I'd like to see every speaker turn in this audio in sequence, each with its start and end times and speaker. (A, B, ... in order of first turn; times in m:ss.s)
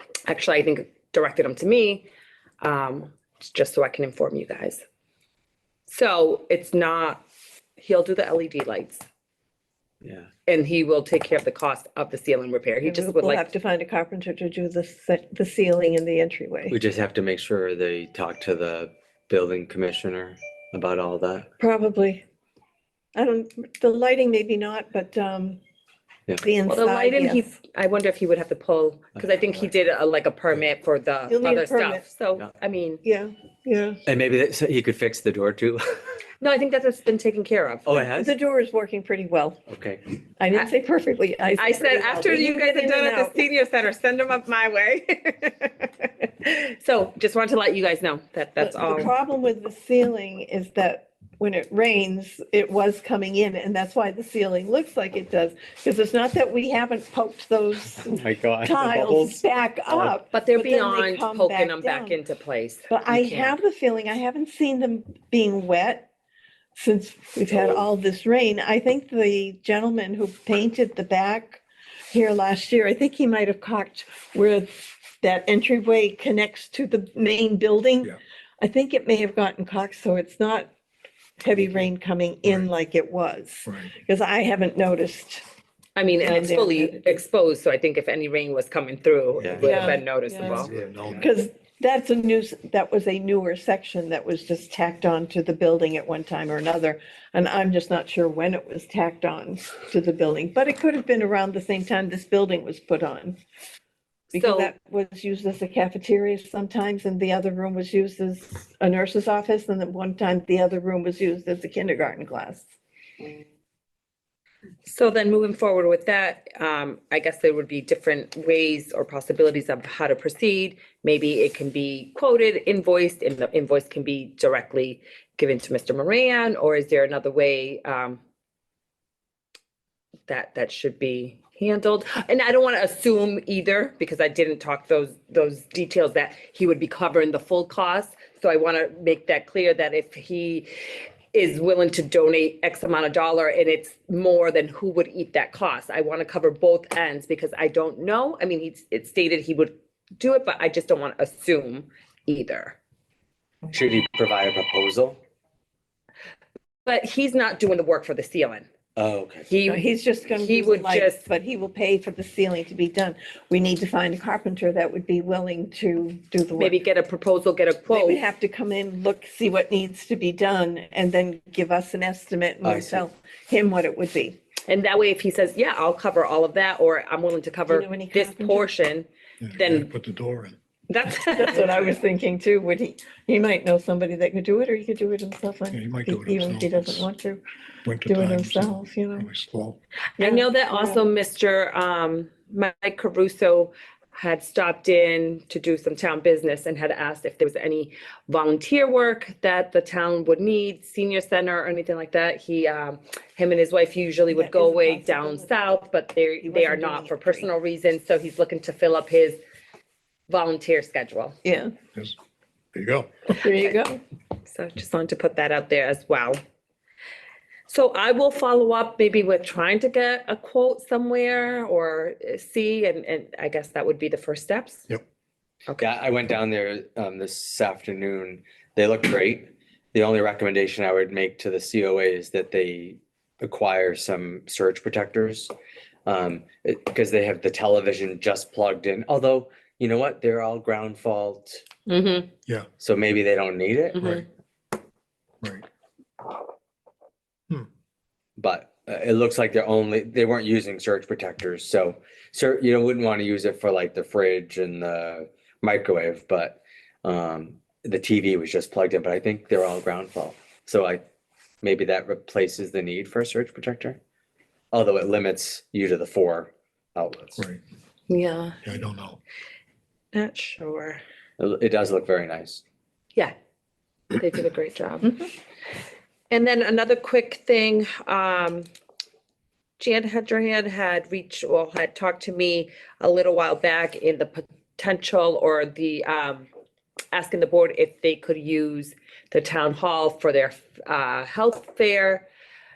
0:00.3-0:02.1 A
0:02.6-0:04.8 A
0:05.9-0:07.2 A
0:07.8-0:09.0 A
0:10.0-0:10.3 B
0:10.5-0:13.5 A
0:12.8-0:16.8 C
0:16.7-0:21.5 B
0:21.6-0:22.2 C
0:23.2-0:25.6 C
0:26.4-0:27.5 C
0:26.7-0:33.0 A
0:29.2-0:29.7 B
0:31.3-0:32.0 C
0:33.0-0:34.0 C
0:34.1-0:35.8 B
0:36.4-0:38.0 A
0:37.9-0:38.3 B
0:38.1-0:39.6 C
0:39.7-0:40.0 B
0:40.4-0:43.4 C
0:41.6-0:49.1 A
0:48.6-1:02.2 C
0:58.0-1:00.2 B
1:00.3-1:03.6 A
1:02.9-1:06.1 C
1:06.8-1:20.7 C
1:07.5-1:07.8 B
1:21.4-1:25.4 C
1:23.7-1:23.9 D
1:26.0-1:30.7 A
1:26.2-1:27.2 C
1:29.4-1:30.0 B
1:29.6-1:43.4 C
1:30.4-1:31.3 D
1:30.7-1:31.1 B
1:44.3-1:44.7 A
1:44.3-1:52.7 C
1:54.9-2:08.2 A
2:10.3-2:20.7 A
2:21.3-2:32.8 A
2:33.7-2:35.2 B
2:36.9-2:38.7 A
2:39.0-2:39.5 B
2:39.5-2:39.9 A
2:39.7-2:46.8 C
2:40.4-2:41.2 A
2:46.6-2:48.2 A
2:47.9-2:54.4 C
2:52.6-2:53.0 B
2:54.7-2:59.9 A
2:57.7-2:58.7 C
2:59.4-3:00.6 D
3:00.9-3:01.7 A
3:01.3-3:07.4 C
3:05.7-3:07.1 D
3:07.8-3:09.8 D
3:08.0-3:09.3 C
3:10.2-3:29.4 A
3:10.2-3:11.0 C
3:24.3-3:25.7 C
3:26.4-3:27.5 C
3:30.3-3:31.4 A
3:31.4-3:31.7 C
3:32.7-3:33.1 D
3:33.3-3:34.0 C
3:34.4-3:36.4 A
3:37.7-3:44.8 A
3:45.8-3:55.5 B
3:56.1-4:01.6 B
4:01.9-4:02.3 A
4:02.8-4:04.1 B
4:04.0-4:04.2 D
4:08.4-4:21.0 B
4:21.6-4:24.0 B
4:24.7-4:27.5 B
4:28.1-4:28.6 A
4:28.6-4:29.2 D
4:30.1-4:31.0 A
4:31.4-4:32.6 B
4:34.2-4:35.2 A
4:36.3-4:38.7 A
4:39.8-4:46.5 A
4:47.1-4:52.3 A